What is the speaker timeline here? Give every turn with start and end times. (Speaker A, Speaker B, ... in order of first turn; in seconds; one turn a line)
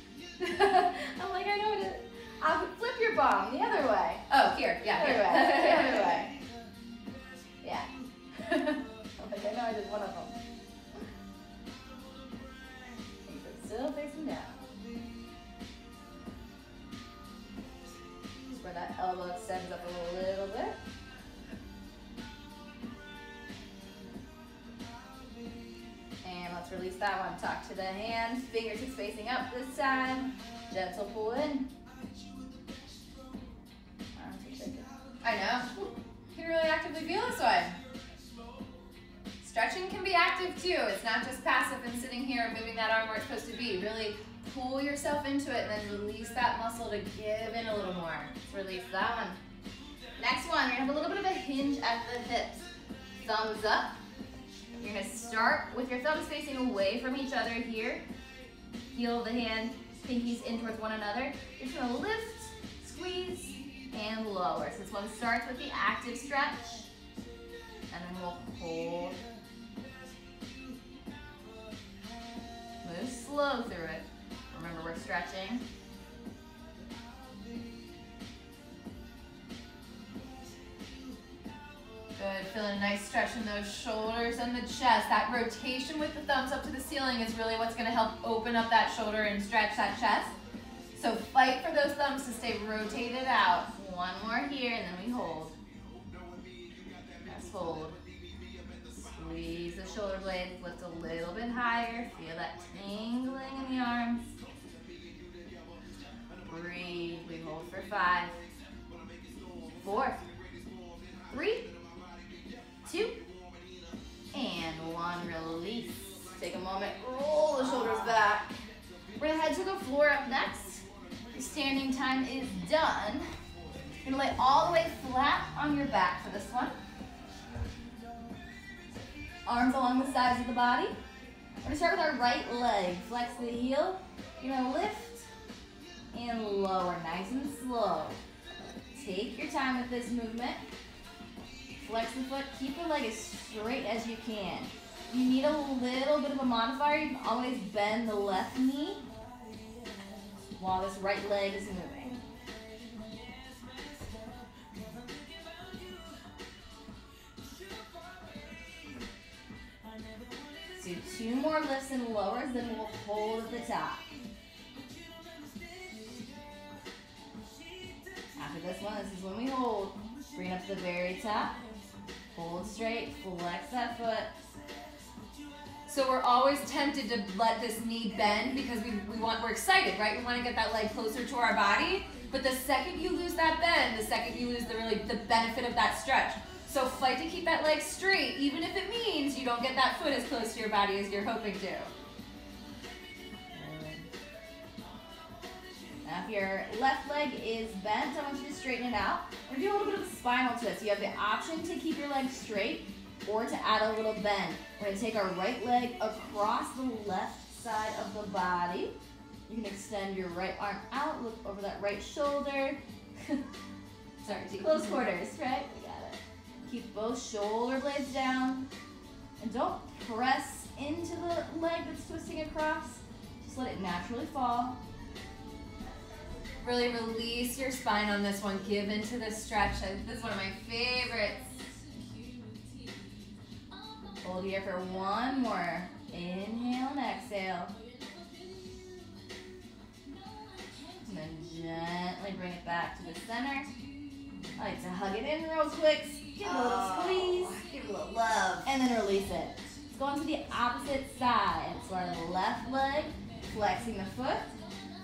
Speaker A: 0.4-4.2
Speaker B: 4.3-6.3
Speaker A: 5.0-6.3
Speaker A: 7.6-10.4
Speaker A: 13.2-14.6
Speaker A: 18.5-20.8
Speaker A: 26.2-31.7
Speaker A: 34.2-34.9
Speaker B: 35.2-37.8
Speaker B: 39.4-48.4
Speaker A: 48.5-49.4
Speaker A: 50.2-52.7
Speaker A: 53.2-54.0
Speaker A: 54.8-58.0
Speaker A: 58.9-66.9
Speaker A: 67.9-69.2
Speaker A: 72.8-75.7
Speaker B: 82.2-90.3
Speaker B: 90.9-93.7
Speaker A: 93.7-95.5
Speaker A: 97.2-98.0
Speaker A: 98.9-104.3
Speaker A: 106.5-108.4
Speaker A: 109.8-110.2
Speaker A: 111.3-111.7
Speaker A: 112.8-113.2
Speaker A: 114.3-118.5
Speaker A: 119.2-123.3
Speaker A: 124.0-126.8
Speaker A: 129.5-131.0
Speaker A: 131.6-135.3
Speaker A: 136.1-138.2
Speaker A: 138.9-140.6
Speaker A: 141.8-149.0
Speaker A: 150.6-152.2
Speaker A: 160.7-164.1
Speaker A: 168.4-171.6
Speaker A: 172.3-174.3
Speaker B: 175.9-191.9
Speaker A: 193.5-194.1
Speaker A: 196.0-208.9
Speaker A: 209.5-213.4
Speaker B: 214.2-215.0
Speaker A: 214.6-218.7
Speaker A: 219.4-224.8
Speaker B: 226.6-231.6
Speaker A: 234.2-237.7
Speaker A: 241.0-243.7
Speaker A: 244.6-247.6
Speaker B: 246.4-248.7
Speaker A: 248.6-254.5